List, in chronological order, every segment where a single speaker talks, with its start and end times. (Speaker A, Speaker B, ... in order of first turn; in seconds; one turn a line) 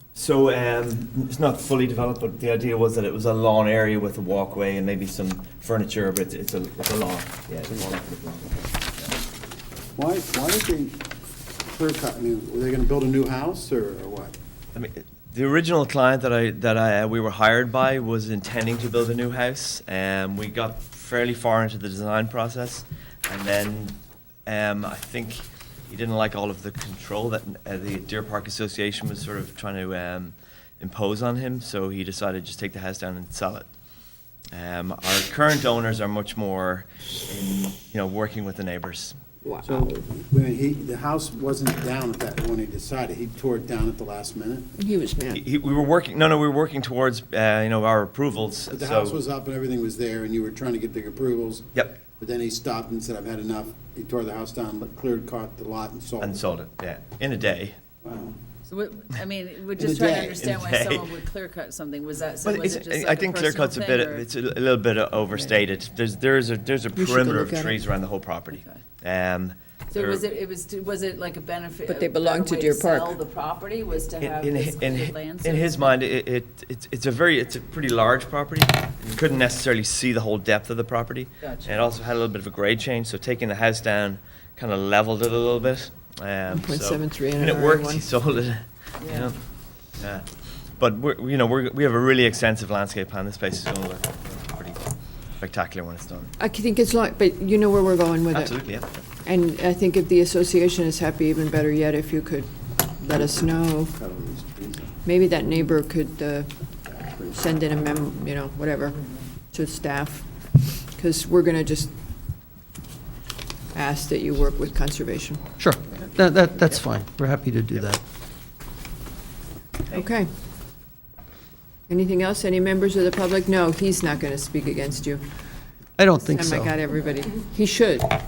Speaker A: 0.1-8.6
Speaker B: 9.9-11.1
Speaker B: 11.7-14.3
Speaker A: 14.7-33.7
Speaker A: 34.5-39.2
Speaker C: 39.4-40.0
Speaker B: 39.6-44.7
Speaker C: 44.8-45.4
Speaker A: 45.3-49.1
Speaker B: 48.7-56.4
Speaker A: 56.2-57.8
Speaker B: 58.0-58.4
Speaker D: 58.7-64.2
Speaker B: 59.7-60.4
Speaker A: 60.4-61.1
Speaker A: 62.4-70.2
Speaker C: 66.9-67.8
Speaker D: 68.5-68.8
Speaker D: 69.9-76.0
Speaker C: 71.9-73.2
Speaker A: 74.2-89.4
Speaker D: 81.4-81.8
Speaker C: 86.5-88.1
Speaker D: 89.0-89.3
Speaker A: 90.0-90.2
Speaker A: 90.8-94.8
Speaker A: 95.4-96.3
Speaker C: 96.4-98.7
Speaker A: 98.3-99.0
Speaker C: 99.2-103.9
Speaker B: 103.1-105.0
Speaker C: 105.0-106.5
Speaker B: 107.0-107.3
Speaker C: 107.3-109.0
Speaker C: 109.5-110.2
Speaker C: 110.9-111.9
Speaker C: 113.7-115.4
Speaker E: 115.6-118.0
Speaker C: 119.9-120.3
Speaker C: 121.9-125.2
Speaker E: 126.0-126.8
Speaker C: 126.2-128.2